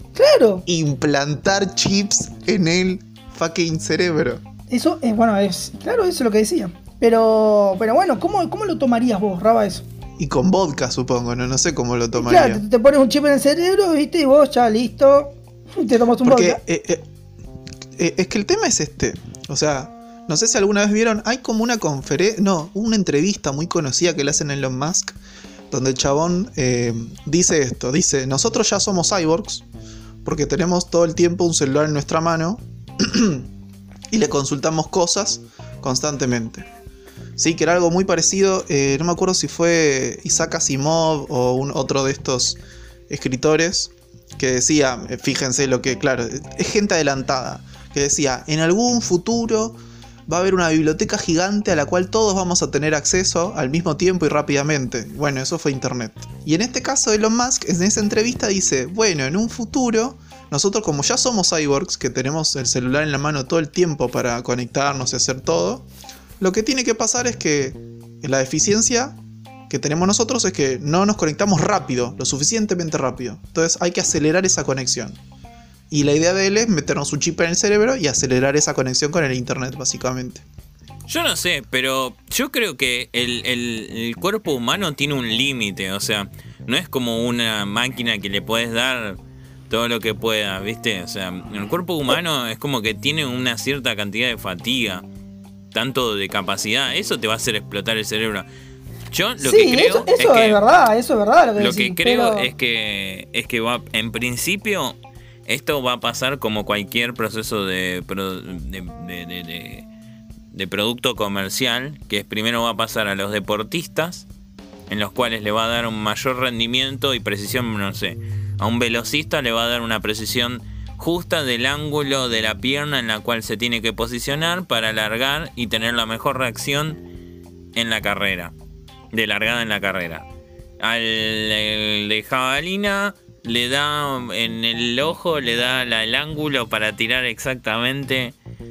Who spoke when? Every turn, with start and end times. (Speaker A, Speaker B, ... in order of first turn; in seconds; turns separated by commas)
Speaker A: 0.2-0.6, Speaker B: 0.7-4.4, Speaker A: 4.7-9.8, Speaker B: 10.2-12.6, Speaker A: 12.2-16.6, Speaker B: 16.2-17.1, Speaker B: 18.0-25.2, Speaker B: 25.7-29.7, Speaker B: 30.2-33.5, Speaker B: 34.1-36.7, Speaker B: 37.4-42.6, Speaker B: 43.1-65.9, Speaker B: 66.4-69.2, Speaker B: 69.7-75.2, Speaker B: 75.9-80.4, Speaker C: 81.1-89.2, Speaker C: 89.7-95.0, Speaker C: 95.7-98.5, Speaker C: 99.1-100.7, Speaker A: 99.4-102.5, Speaker C: 101.6-109.9, Speaker C: 110.5-114.2, Speaker C: 114.9-127.0, Speaker C: 127.8-128.5, Speaker C: 129.1-130.3, Speaker C: 130.8-138.3